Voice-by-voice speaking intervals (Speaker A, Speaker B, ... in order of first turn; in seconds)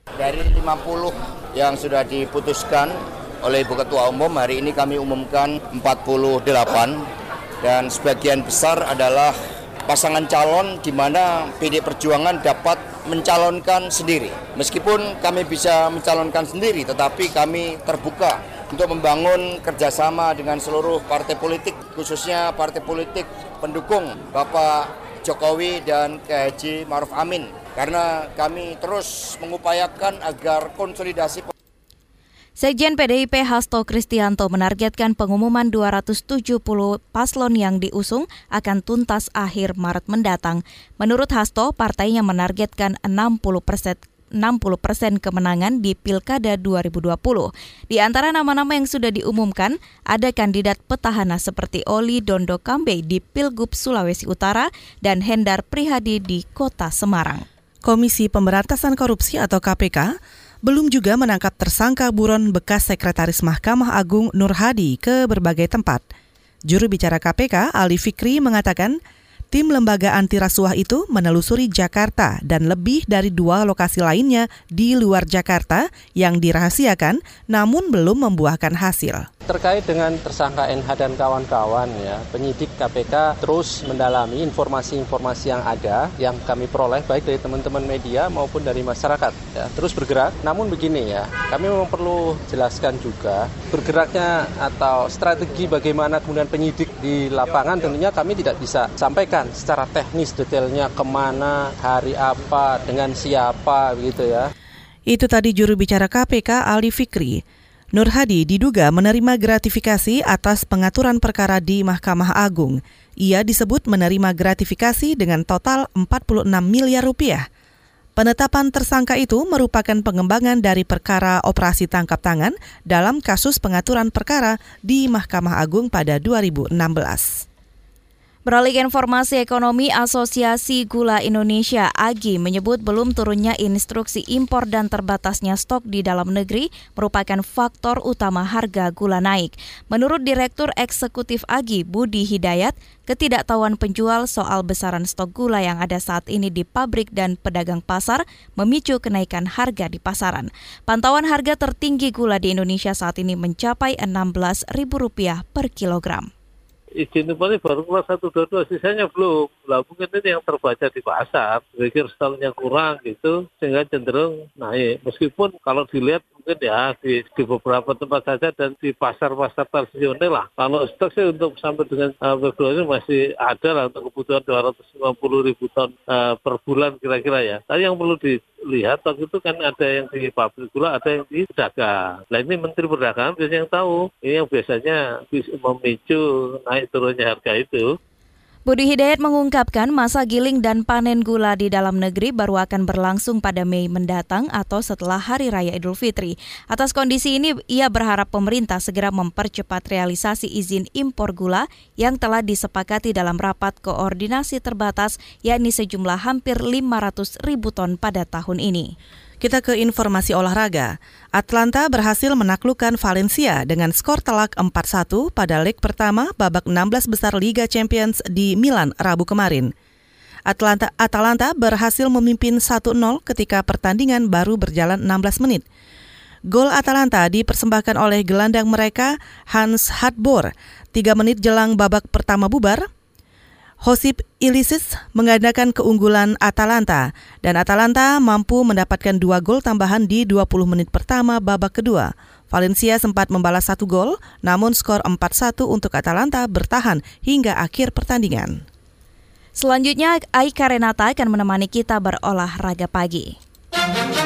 Speaker A: 0.2-7.0, 7.6-9.3, 9.9-31.5
Speaker B: 32.6-57.5, 128.5-156.3, 188.7-208.9, 249.6-253.3
Speaker C: 57.9-60.1, 60.6-66.0, 66.7-69.0, 69.5-79.3, 105.1-107.4, 107.9-117.5, 118.2-127.5, 209.4-219.7, 220.5-225.6, 226.5-232.9, 233.8-248.6
Speaker D: 79.5-104.5
Speaker E: 157.0-188.0